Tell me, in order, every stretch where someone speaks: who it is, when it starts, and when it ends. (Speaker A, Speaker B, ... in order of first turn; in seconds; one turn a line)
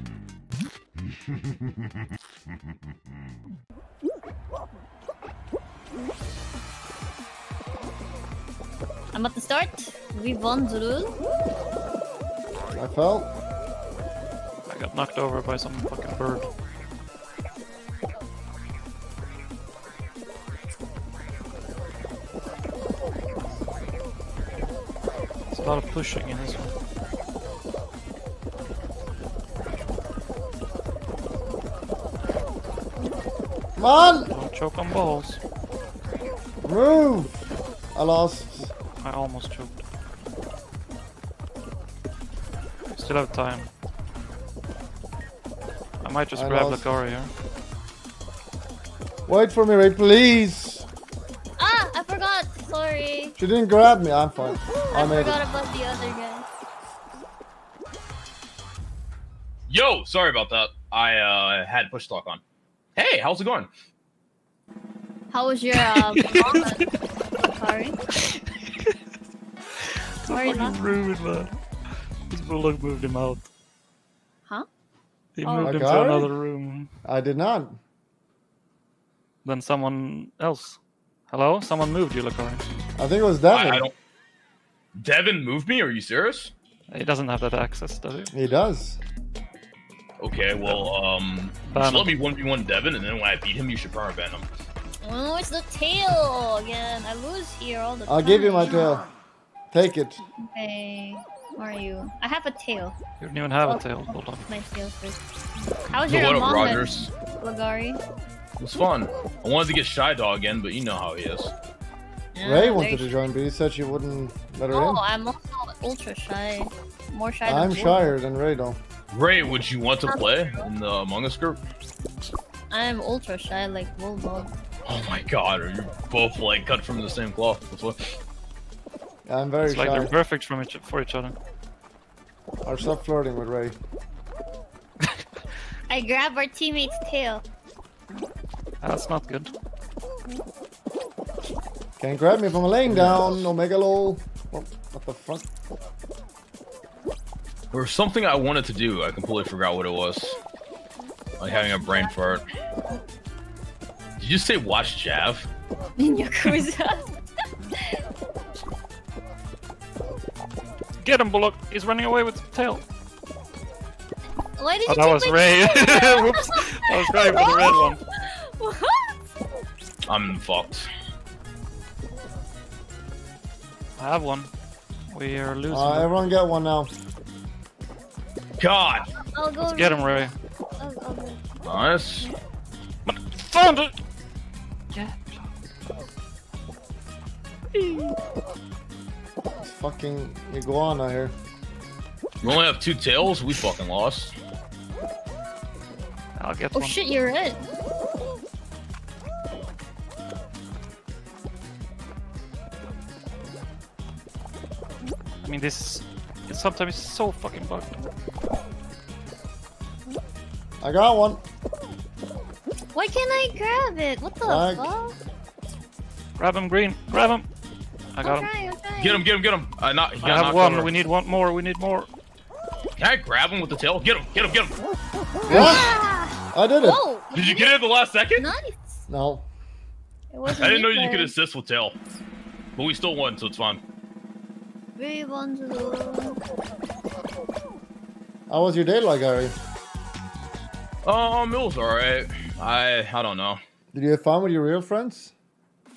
Speaker A: 9.1-11.2
Speaker B: 12.7-13.3
Speaker C: 14.7-16.5
Speaker C: 25.5-26.7
Speaker B: 33.8-34.3
Speaker C: 34.3-35.4
Speaker B: 36.6-38.7
Speaker C: 39.0-39.8
Speaker C: 42.9-43.7
Speaker C: 46.0-47.3
Speaker B: 46.3-46.9
Speaker B: 49.3-50.9
Speaker A: 51.6-53.4
Speaker B: 53.4-55.4
Speaker A: 54.9-56.5
Speaker D: 59.7-62.4
Speaker D: 63.0-63.7
Speaker A: 65.3-68.0
Speaker C: 65.7-67.0
Speaker C: 68.1-68.9
Speaker C: 69.8-71.6
Speaker A: 70.3-70.8
Speaker C: 72.3-73.5
Speaker C: 75.3-76.9
Speaker A: 75.4-75.8
Speaker B: 75.6-76.3
Speaker B: 77.0-77.8
Speaker C: 79.4-82.6
Speaker B: 83.0-83.9
Speaker D: 83.5-83.9
Speaker D: 85.0-86.5
Speaker C: 86.9-88.3
Speaker B: 88.3-89.0
Speaker D: 90.2-94.5
Speaker C: 90.6-91.0
Speaker C: 91.7-92.1
Speaker A: 95.0-98.9
Speaker B: 98.1-99.0
Speaker B: 99.7-100.2
Speaker A: 100.4-103.0
Speaker C: 103.2-104.5
Speaker A: 103.6-105.2
Speaker A: 105.8-108.0
Speaker D: 106.1-107.1
Speaker D: 108.6-111.5
Speaker A: 112.3-113.1
Speaker B: 112.4-115.0
Speaker A: 114.7-118.0
Speaker B: 117.5-118.8
Speaker D: 119.1-121.6
Speaker A: 120.0-120.7
Speaker A: 122.7-124.5
Speaker D: 124.9-128.0
Speaker B: 129.2-130.1
Speaker C: 129.7-131.3
Speaker B: 132.7-133.8
Speaker A: 135.9-137.4
Speaker C: 138.8-139.5
Speaker B: 142.0-145.5
Speaker D: 142.9-143.5
Speaker D: 147.7-150.4
Speaker D: 151.4-152.4
Speaker A: 151.5-152.4
Speaker D: 154.2-155.5
Speaker A: 156.0-157.1
Speaker C: 161.0-162.8
Speaker A: 164.6-169.2
Speaker C: 164.9-168.0
Speaker D: 170.1-170.9
Speaker C: 174.0-174.5
Speaker C: 175.1-176.1
Speaker B: 175.7-176.9
Speaker D: 178.6-179.1
Speaker A: 179.2-181.5
Speaker C: 179.7-180.3
Speaker D: 181.7-182.3
Speaker C: 183.1-183.9
Speaker C: 184.9-185.5
Speaker B: 189.6-191.3
Speaker D: 192.4-194.3
Speaker C: 196.4-197.2
Speaker A: 196.7-197.6
Speaker C: 205.4-208.0
Speaker B: 210.8-211.4
Speaker A: 212.9-215.2
Speaker B: 214.4-214.9
Speaker C: 216.4-217.5
Speaker C: 218.1-218.5
Speaker A: 218.2-219.2
Speaker D: 219.0-220.9
Speaker C: 220.2-222.1
Speaker D: 223.0-224.8
Speaker A: 225.5-227.7
Speaker B: 225.5-225.9
Speaker D: 225.5-225.8
Speaker B: 226.5-227.0
Speaker D: 227.3-228.5
Speaker A: 228.4-229.0
Speaker B: 229.1-229.5
Speaker A: 230.3-231.3
Speaker D: 230.5-231.9
Speaker D: 232.8-233.8
Speaker A: 235.0-236.4
Speaker B: 238.5-239.5
Speaker D: 241.1-243.6
Speaker B: 243.9-245.3